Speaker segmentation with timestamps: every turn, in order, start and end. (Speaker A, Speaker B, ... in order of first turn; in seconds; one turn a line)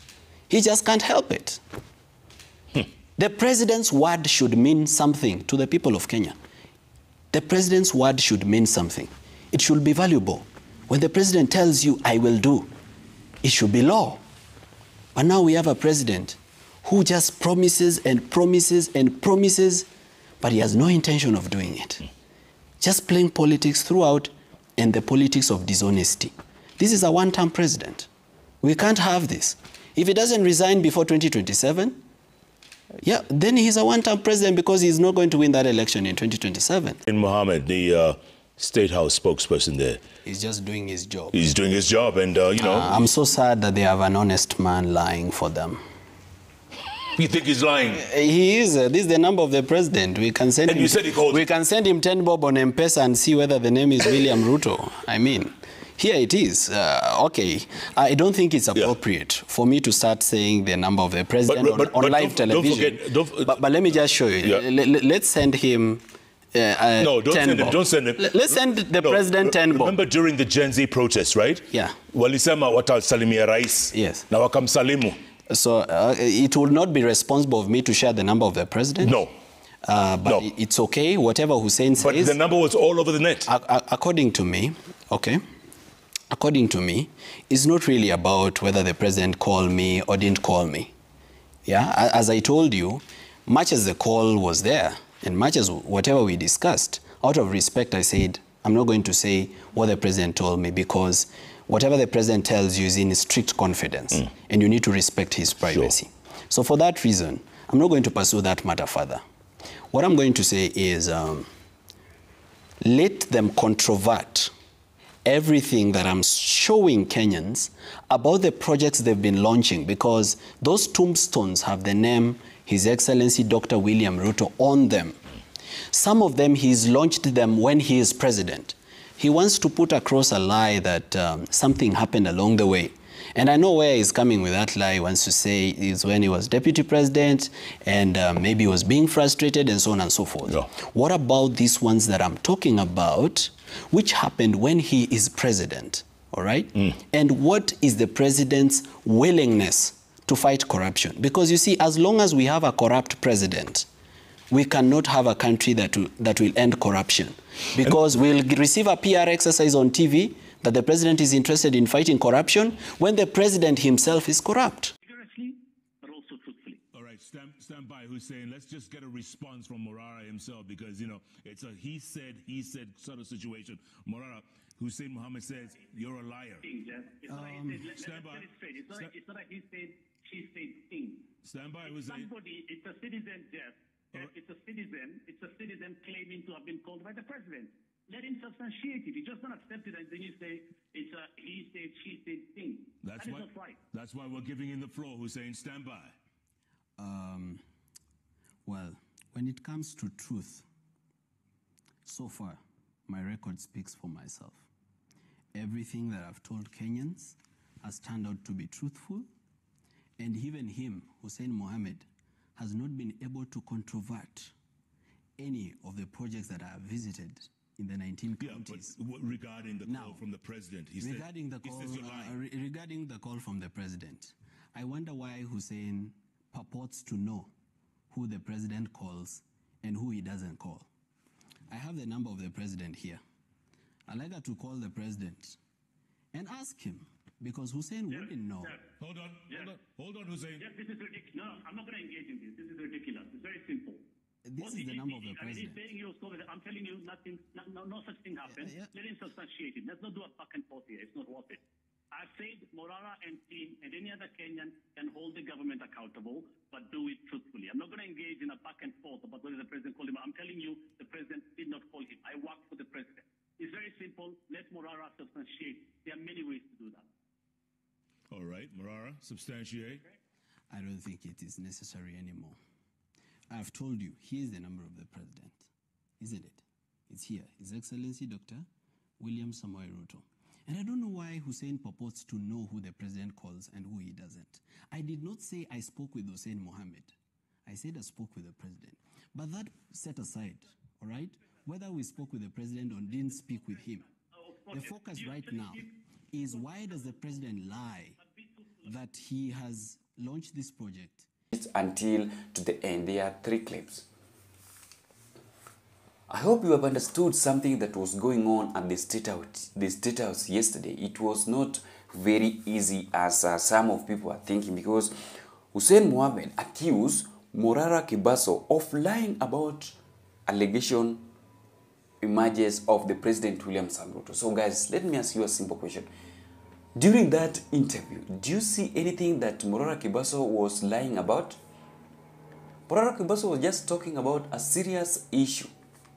Speaker A: 0.5-1.6
Speaker A: 3.2-6.4
Speaker A: 7.3-12.7
Speaker A: 13.4-14.2
Speaker A: 15.2-19.9
Speaker A: 20.4-22.1
Speaker A: 22.8-28.1
Speaker A: 28.6-32.0
Speaker A: 33.0-37.0
Speaker B: 37.1-40.0
Speaker A: 40.2-41.4
Speaker B: 41.3-43.1
Speaker A: 42.6-45.8
Speaker B: 47.1-48.0
Speaker A: 47.9-66.0
Speaker B: 50.7-51.4
Speaker B: 61.5-63.6
Speaker A: 66.5-70.0
Speaker B: 67.0-75.2
Speaker A: 71.7-72.0
Speaker A: 73.9-74.3
Speaker A: 75.5-79.2
Speaker B: 79.0-79.3
Speaker A: 79.8-82.4
Speaker B: 80.2-80.5
Speaker B: 82.0-83.5
Speaker A: 83.5-85.4
Speaker A: 86.3-90.9
Speaker A: 91.7-109.2
Speaker A: 109.9-111.5
Speaker A: 112.8-114.5
Speaker A: 115.2-125.2
Speaker A: 125.9-153.9
Speaker A: 154.5-164.9
Speaker C: 165.0-166.8
Speaker B: 166.9-176.7
Speaker C: 176.6-181.3
Speaker A: 177.3-177.8
Speaker B: 177.9-179.1
Speaker B: 181.4-182.3
Speaker C: 181.8-193.8
Speaker B: 193.0-196.1
Speaker A: 197.0-197.6
Speaker A: 198.7-200.7
Speaker A: 202.1-204.7
Speaker A: 205.5-209.3
Speaker A: 210.2-214.5
Speaker A: 215.4-218.9
Speaker B: 218.4-222.3
Speaker A: 219.8-220.2
Speaker A: 221.0-227.5
Speaker A: 228.1-230.9
Speaker A: 231.7-233.2
Speaker A: 234.1-235.6
Speaker A: 236.3-238.8
Speaker B: 239.0-240.7
Speaker C: 239.5-239.7
Speaker C: 240.6-244.0
Speaker A: 244.4-245.9
Speaker C: 244.6-251.6
Speaker A: 248.5-248.9
Speaker C: 252.1-267.1
Speaker B: 268.3-270.0
Speaker A: 270.7-272.6
Speaker A: 273.5-275.7
Speaker A: 276.2-278.7
Speaker A: 279.2-287.1
Speaker A: 287.7-294.1
Speaker C: 294.4-295.9
Speaker A: 294.7-298.2
Speaker A: 298.8-301.3
Speaker D: 301.5-304.1
Speaker D: 306.3-315.1
Speaker D: 315.7-321.3
Speaker D: 322.2-326.1
Speaker D: 326.9-331.6
Speaker D: 332.9-335.7